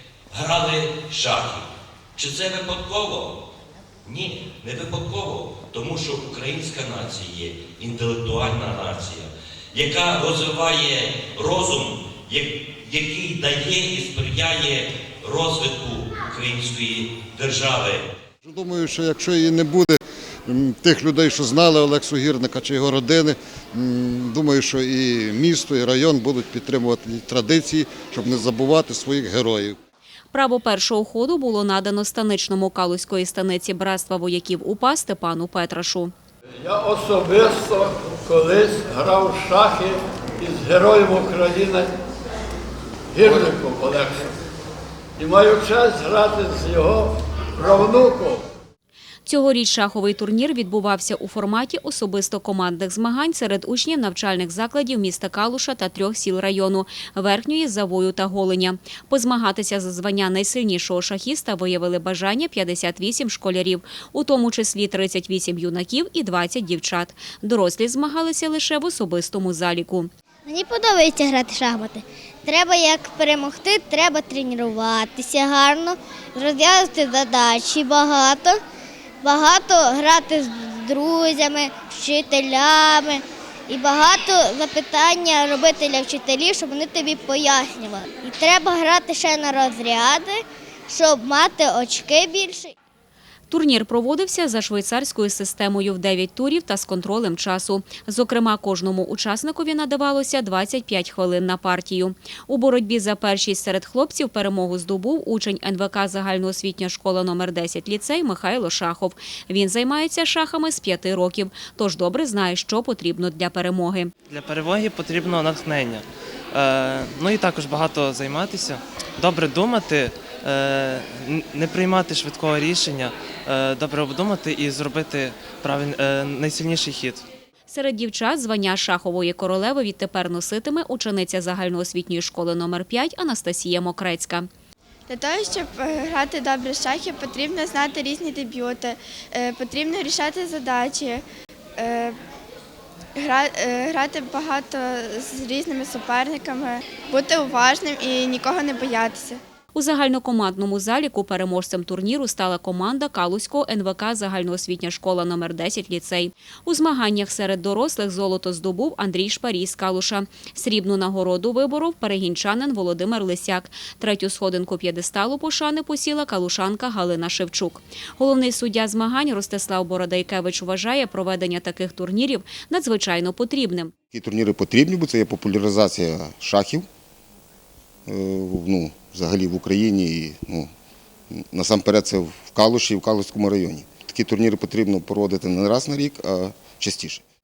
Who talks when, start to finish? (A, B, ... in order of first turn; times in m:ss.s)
0:00.3-0:03.3 A
0:04.0-0:18.1 A
0:18.4-0:29.8 B
0:30.3-0:36.1 C
0:36.6-0:41.9 D
0:43.1-0:44.3 D
0:45.2-0:48.4 D
0:49.3-1:10.1 C
1:10.5-1:18.6 E
1:19.2-1:32.7 E
1:33.5-1:54.1 C
1:54.3-2:07.3 F
2:07.7-2:14.5 C
2:15.1-2:21.2 G
2:21.8-2:22.2 G
2:23.2-2:29.4 G
2:29.7-2:53.9 C
2:54.1-2:56.9 H
2:58.1-3:00.7 H
3:01.3-3:07.2 H